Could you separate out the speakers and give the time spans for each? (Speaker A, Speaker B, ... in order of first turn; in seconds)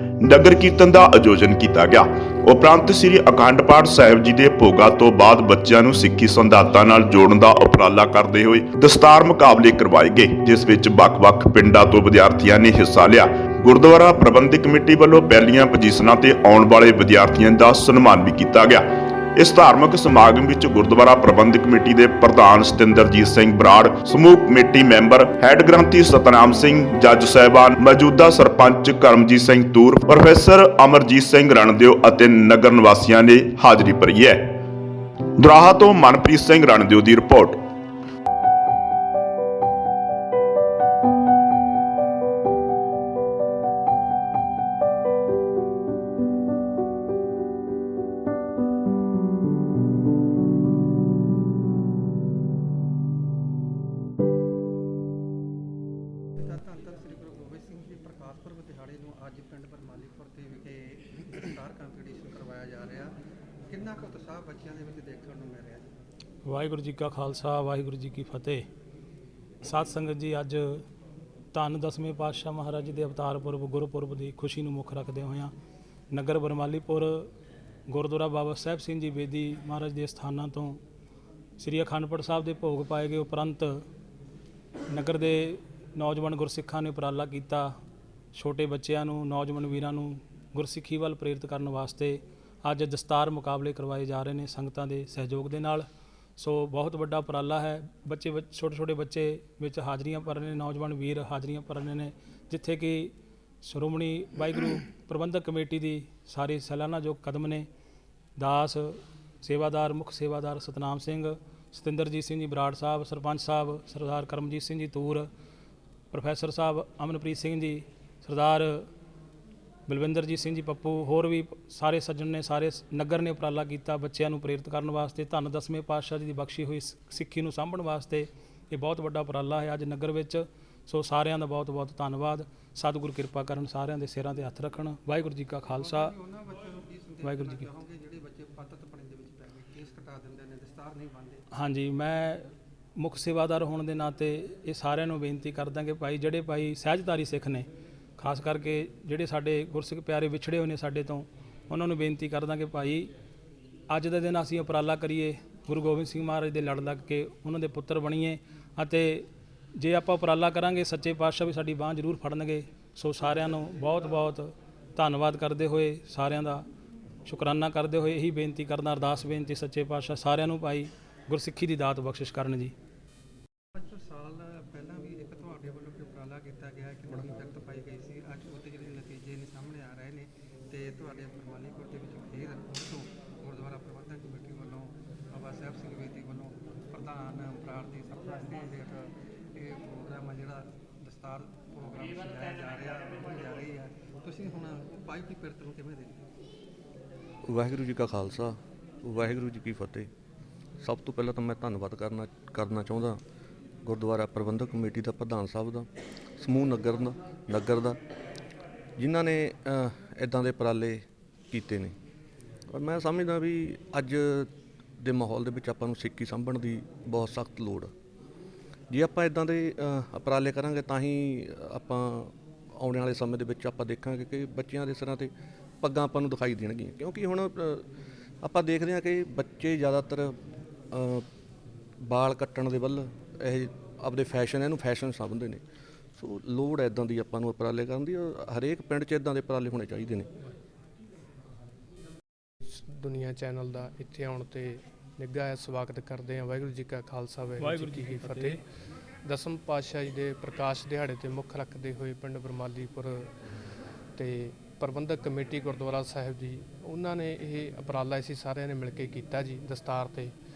Speaker A: 0.2-34.6, 35.4-37.6
Speaker B: 56.4-63.1, 63.6-65.9, 135.7-141.4, 173.8-196.2
Speaker C: 66.4-68.7, 69.6-70.8, 71.5-75.5, 76.1-77.3, 77.9-80.8, 81.6-83.8, 84.9-87.8, 88.3-107.7, 108.4-115.3, 116.1-118.9, 119.9-136.1, 137.2-137.7, 141.5-147.7, 148.2-153.1, 153.9-166.6, 167.2-172.7, 247.6-248.6
Speaker D: 197.4-200.1, 200.8-203.2, 203.8-208.0, 209.0-211.9, 212.7-217.9, 218.9-227.8, 228.4-230.3, 230.9-231.2, 232.0-235.6, 236.2-240.3
Speaker E: 242.7-248.6, 249.2-253.3, 254.2-260.3